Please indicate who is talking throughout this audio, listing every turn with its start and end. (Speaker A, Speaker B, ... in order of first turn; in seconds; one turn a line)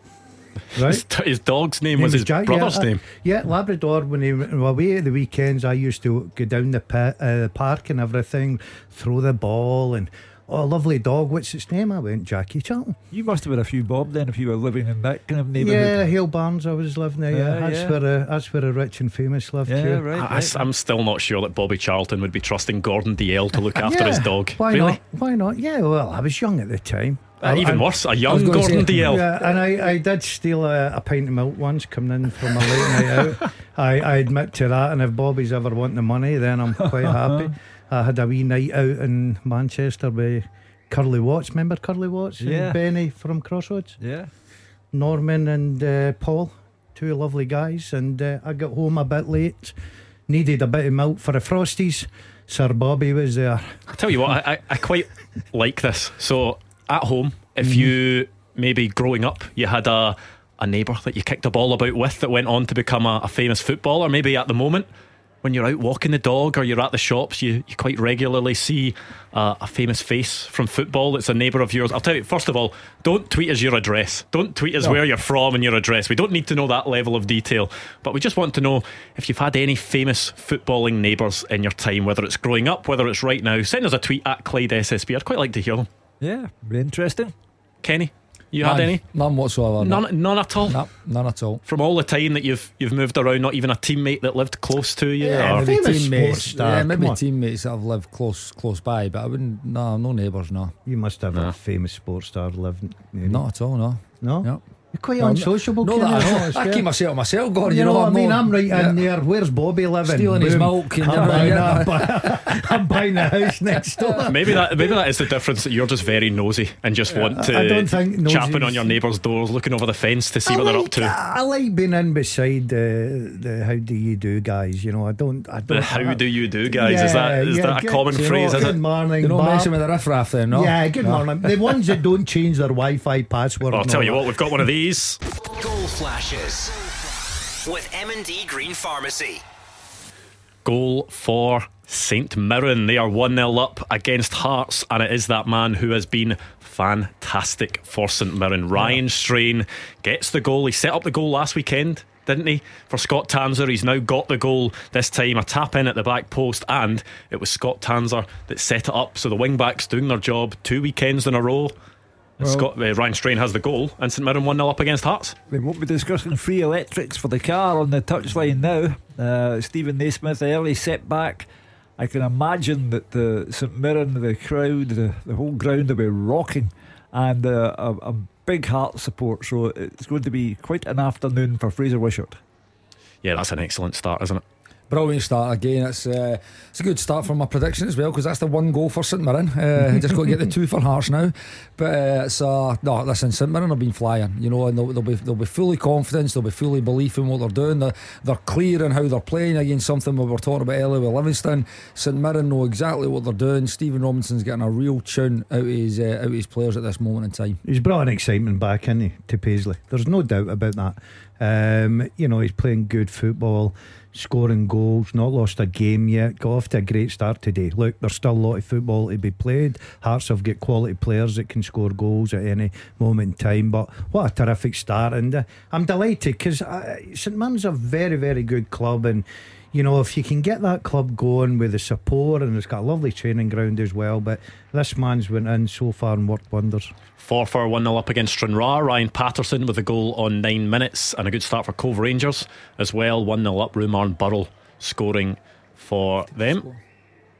Speaker A: 0.7-1.0
Speaker B: 0.8-3.0
Speaker A: 1.9-13.0
Speaker C: 13.1-16.1
Speaker A: 15.6-20.1
Speaker C: 17.3-18.0
Speaker C: 19.6-20.6
Speaker B: 20.1-25.0
Speaker A: 23.8-28.0
Speaker B: 27.4-29.3
Speaker D: 28.3-29.5
Speaker A: 29.0-44.0
Speaker C: 37.0-37.5
Speaker C: 42.4-42.8
Speaker C: 44.0-44.3
Speaker A: 44.9-49.7
Speaker A: 50.3-53.8
Speaker B: 53.9-64.9
Speaker A: 57.6-57.9
Speaker B: 65.4-85.9
Speaker C: 86.2-87.3
Speaker B: 87.8-89.0
Speaker D: 88.6-90.1
Speaker B: 89.8-90.8
Speaker D: 90.6-91.6
Speaker B: 91.7-95.7
Speaker A: 95.2-97.2
Speaker D: 95.5-100.7
Speaker A: 100.8-103.4
Speaker D: 103.2-104.6
Speaker A: 104.2-106.8
Speaker D: 105.2-109.0
Speaker A: 107.6-115.0
Speaker D: 110.0-112.6
Speaker B: 114.3-121.1
Speaker A: 117.1-119.0
Speaker A: 120.5-129.7
Speaker B: 125.7-128.8
Speaker D: 128.1-131.3
Speaker A: 130.5-134.3
Speaker B: 133.7-135.2
Speaker E: 135.4-136.7
Speaker E: 137.6-139.4
Speaker B: 140.6-161.7
Speaker B: 162.4-165.4
Speaker C: 162.4-162.7
Speaker C: 165.5-182.4
Speaker B: 183.2-184.4
Speaker D: 184.9-207.6
Speaker A: 207.6-236.9
Speaker B: 237.2-246.7